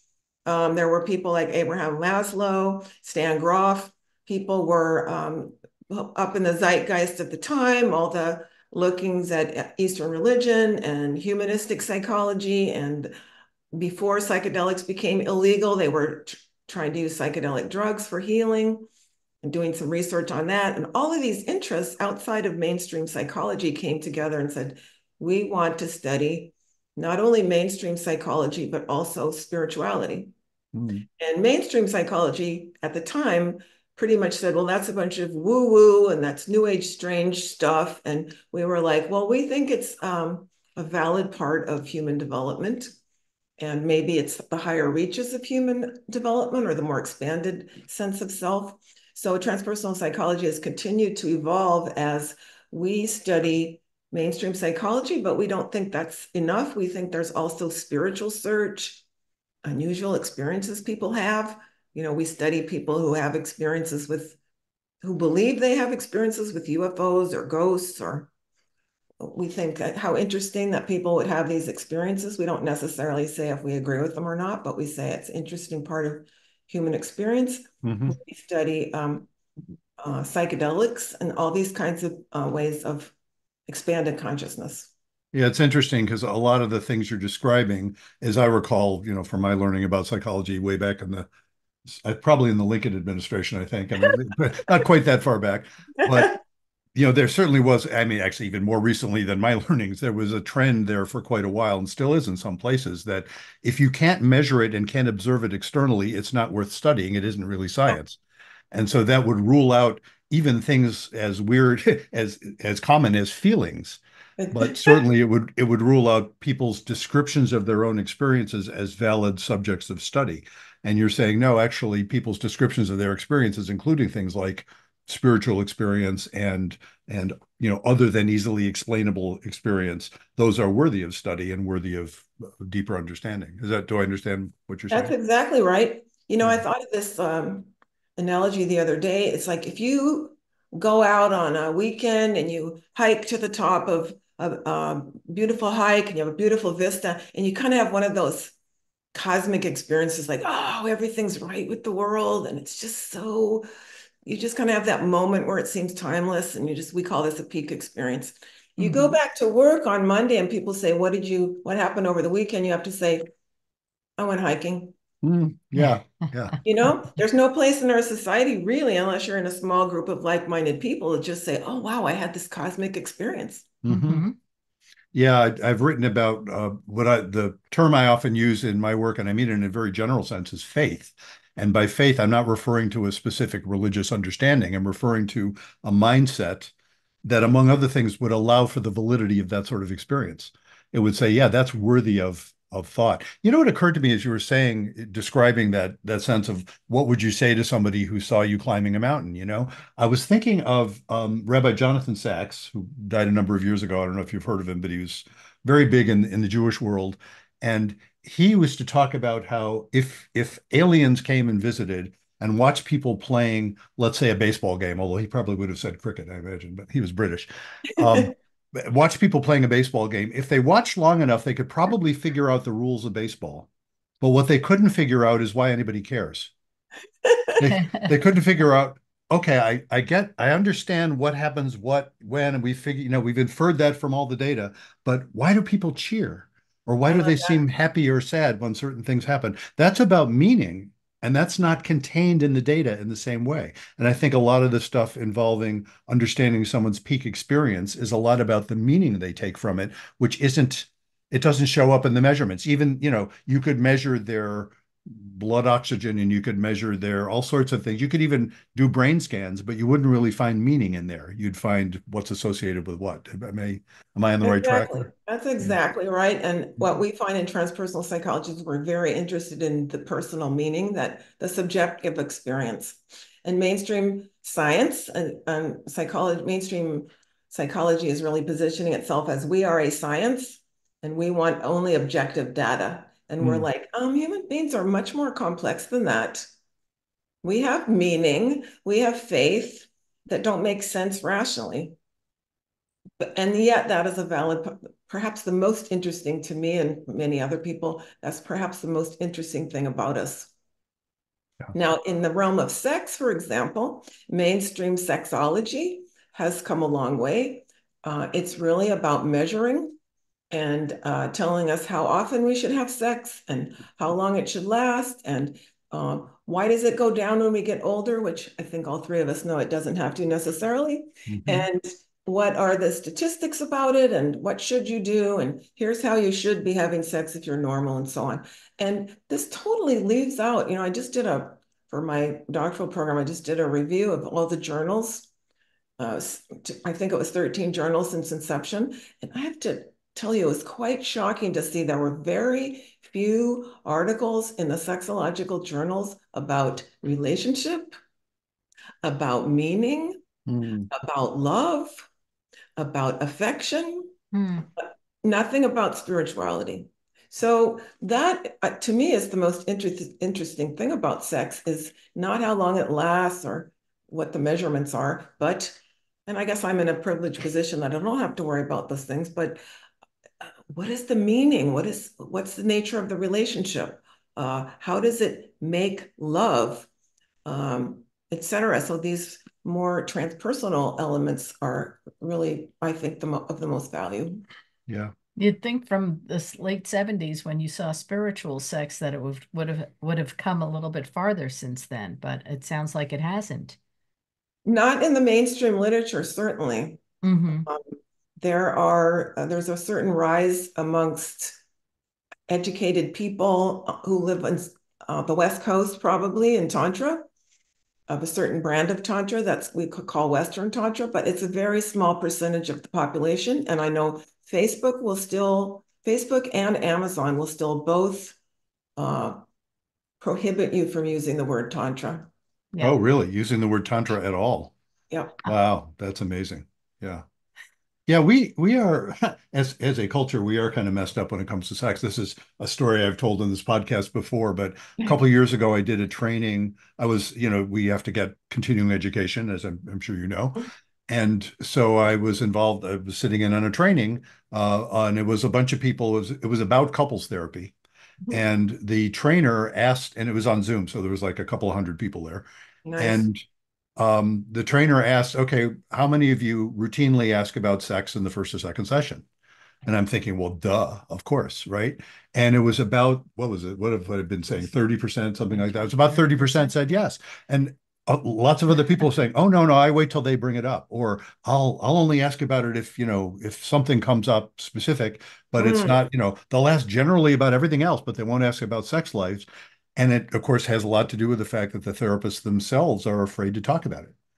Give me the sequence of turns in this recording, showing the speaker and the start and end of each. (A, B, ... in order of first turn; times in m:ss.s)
0:00.5-0:13.1 A
0:13.7-0:18.9 A
0:19.4-0:30.3 A
0:30.7-0:31.1 B
0:31.2-0:42.9 A
0:43.6-0:59.0 A
0:59.6-1:04.4 A
1:05.0-1:08.3 A
1:09.2-1:19.3 A
1:17.8-1:18.2 B
1:20.0-1:23.1 A
1:23.7-1:24.9 A
1:25.3-1:31.3 B
1:31.9-1:36.4 B
1:36.0-1:36.3 A
1:37.0-1:48.2 B
1:48.7-1:54.0 B
1:54.4-1:55.0 A
1:54.5-2:15.1 B
2:14.9-2:28.6 A
2:29.1-2:33.7 A
2:34.2-2:43.2 A
2:38.8-2:39.2 C
2:44.2-2:45.0 A
2:45.2-2:46.6 B
2:45.7-2:46.5 C
2:46.6-2:53.8 A
2:53.8-2:54.3 B
2:53.9-2:54.4 C
2:55.1-3:06.7 B
3:07.2-3:43.7 B
3:44.2-3:46.5 B
3:47.2-3:47.6 A
3:47.6-4:25.1 B
3:47.7-3:48.1 C
3:57.1-3:57.6 A
4:24.4-4:46.5 A
4:43.4-4:43.7 B
4:47.4-4:52.0 A
4:53.2-5:00.5 A
5:01.7-5:10.0 A
5:10.5-5:35.3 A
5:21.3-5:21.7 B
5:36.0-5:47.9 A
5:49.0-5:50.2 A
5:50.5-5:50.9 B
5:50.9-5:52.0 A
5:52.8-5:54.1 A
5:54.3-5:54.7 C
5:54.8-6:09.6 A
6:10.4-6:16.9 A
6:17.4-6:24.4 A
6:24.9-6:25.1 B
6:25.4-6:33.8 C
6:34.6-6:37.0 A
6:37.2-6:37.7 C
6:37.7-6:41.6 A
6:42.5-6:47.3 A
6:48.1-6:58.4 A
6:59.0-6:59.4 A
7:00.2-7:02.3 A
7:02.8-7:04.7 B
7:05.1-7:05.4 A
7:05.4-7:07.2 B
7:08.1-7:27.8 B
7:28.3-7:32.5 B
7:32.8-7:33.3 A
7:33.0-7:33.4 B
7:34.0-7:39.3 B
7:39.8-8:04.1 B
7:55.6-7:56.0 A